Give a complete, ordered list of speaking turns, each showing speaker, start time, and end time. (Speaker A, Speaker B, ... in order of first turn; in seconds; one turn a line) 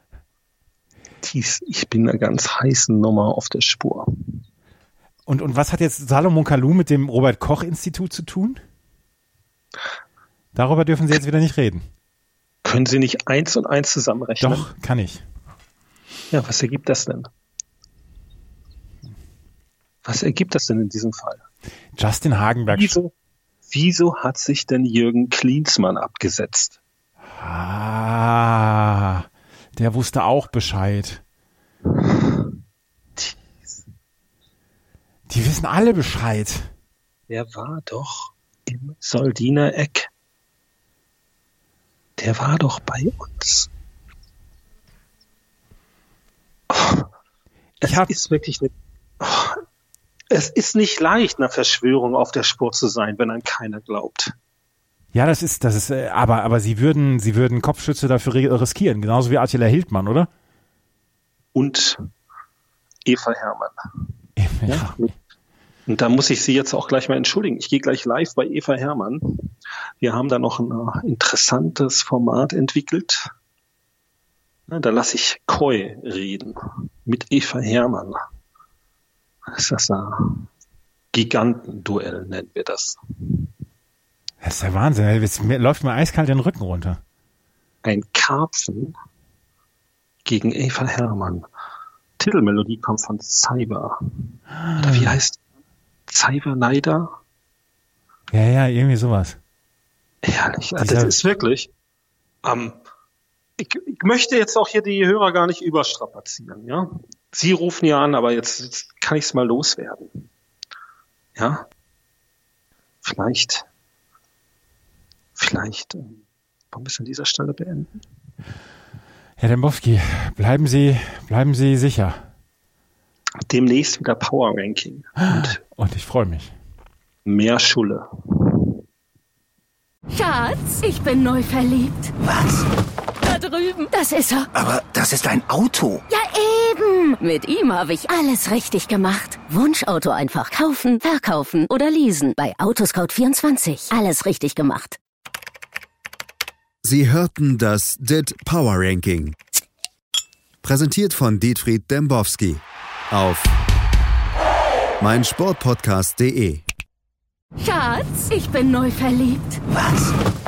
Speaker A: 1.2-4.1
Speaker B: 5.2-8.6
Speaker B: 10.5-11.8
Speaker A: 12.6-14.7
Speaker B: 14.4-15.2
Speaker A: 16.3-17.3
Speaker A: 20.0-21.4
Speaker B: 21.9-23.0
Speaker A: 22.7-23.1
Speaker A: 23.7-26.8
Speaker B: 27.4-31.2
Speaker A: 31.9-32.5
Speaker A: 33.2-33.6
Speaker B: 35.3-36.7
Speaker A: 37.3-40.1
Speaker A: 42.2-43.7
Speaker A: 46.7-47.1
Speaker A: 47.8-49.6
Speaker B: 47.8-48.1
Speaker A: 50.3-54.3
Speaker B: 55.1-60.3
Speaker A: 61.5-62.0
Speaker A: 63.0-63.7
Speaker B: 64.4-65.1
Speaker A: 64.7-65.1
Speaker A: 65.9-69.2
Speaker A: 70.0-73.2
Speaker A: 74.7-78.2
Speaker A: 79.5-80.4
Speaker A: 81.1-83.0
Speaker B: 84.4-87.0
Speaker A: 87.8-88.9
Speaker A: 90.2-91.4
Speaker A: 92.2-94.0
Speaker B: 94.6-95.2
Speaker A: 94.8-95.4
Speaker A: 96.1-97.1
Speaker B: 98.3-99.4
Speaker A: 100.2-101.7
Speaker B: 100.8-101.2
Speaker A: 102.4-102.8
Speaker A: 103.6-110.2
Speaker A: 111.3-111.7
Speaker A: 113.0-113.7
Speaker A: 115.3-116.2
Speaker A: 116.7-118.0
Speaker B: 119.4-122.2
Speaker A: 123.5-125.6
Speaker B: 125.2-126.5
Speaker A: 127.2-128.7
Speaker C: 130.1-132.1
Speaker D: 132.2-132.7
Speaker C: 133.2-134.5
Speaker D: 134.5-136.0
Speaker C: 136.1-145.0
Speaker E: 146.8-149.3
Speaker E: 150.6-153.5
Speaker E: 155.0-156.6
Speaker C: 157.6-159.6
Speaker D: 159.7-160.1